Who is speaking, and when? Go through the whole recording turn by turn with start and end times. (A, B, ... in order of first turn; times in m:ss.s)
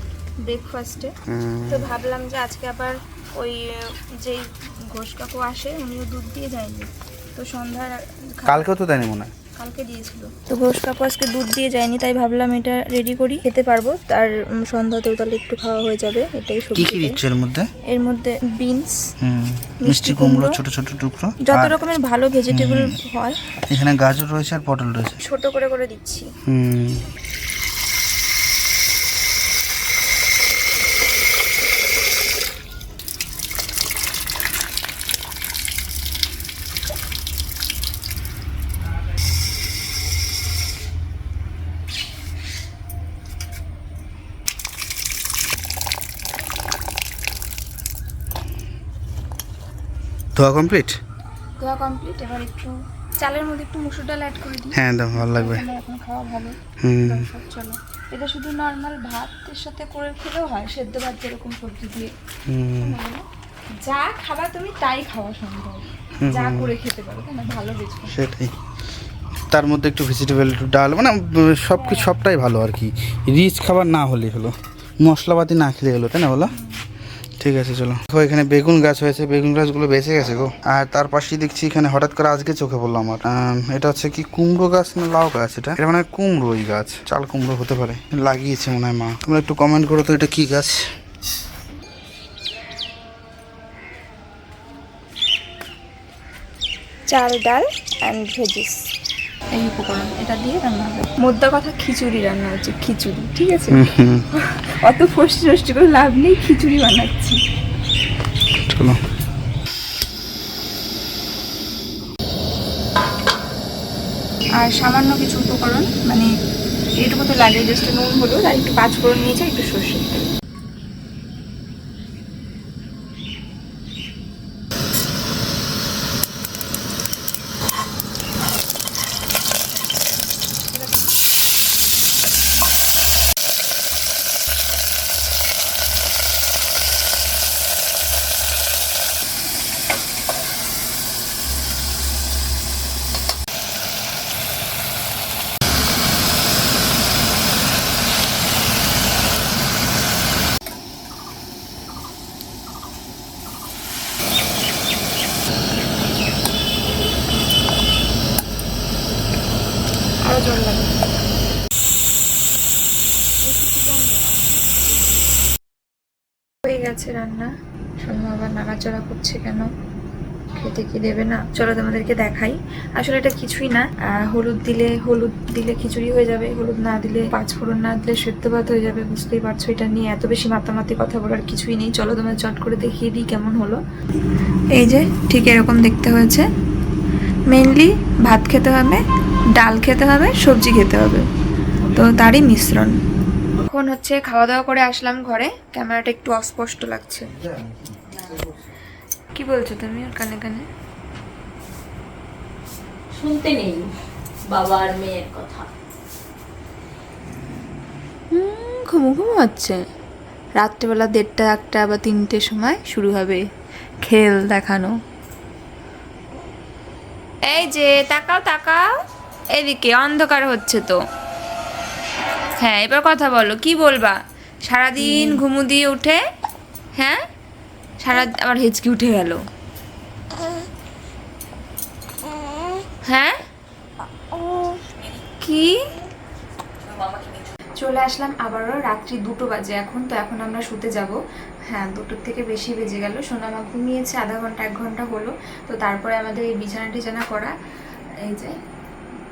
0:00.4-0:01.1 A
0:01.3-0:01.9 B
0:01.7-0:08.6 A
0:08.4-0:09.3 B
0:09.6-0:17.2 A
0:16.7-0:17.7 B
0:17.9-0:19.1 A
0:19.2-0:21.7 B
0:19.8-0:20.6 A
0:21.4-0:23.4 A
0:22.5-0:23.0 B
0:23.7-0:25.2 B
0:25.2-0:26.3 A
0:26.4-0:27.0 B
0:50.4-0:51.0 B
0:51.6-1:02.1 A
0:54.7-0:55.6 B
0:56.8-0:57.3 B
1:02.5-1:03.0 B
1:02.8-1:03.2 A
1:03.8-1:08.1 A
1:06.2-1:06.7 B
1:08.1-1:08.5 B
1:09.5-1:16.5 B
1:11.8-1:12.1 A
1:16.5-1:16.8 A
1:17.4-1:30.8 B
1:37.1-1:38.8 A
1:39.5-1:47.4 A
1:43.7-1:44.2 B
1:48.7-1:49.0 B
1:54.6-1:56.3 A
1:57.0-2:00.1 A
2:40.2-2:41.2 A
2:43.4-2:44.4 A
2:46.6-2:49.7 A
2:50.6-3:03.8 A
3:04.8-3:06.5 A
3:07.5-3:09.0 A
3:09.6-3:11.2 A
3:11.9-3:12.9 A
3:13.6-3:17.3 A
3:17.4-3:18.6 B
3:19.3-3:20.7 A
3:23.1-3:23.9 C
3:24.5-3:25.7 C
3:28.3-3:29.8 A
3:30.6-3:33.4 A
3:34.0-3:34.9 A
3:37.5-3:38.8 A
3:39.5-3:41.0 A
3:42.6-3:46.2 A
3:47.0-3:47.2 A
3:48.0-3:49.4 A
3:53.0-3:53.4 A
3:55.2-3:55.8 A
3:57.8-4:07.5 A
4:08.2-4:08.6 A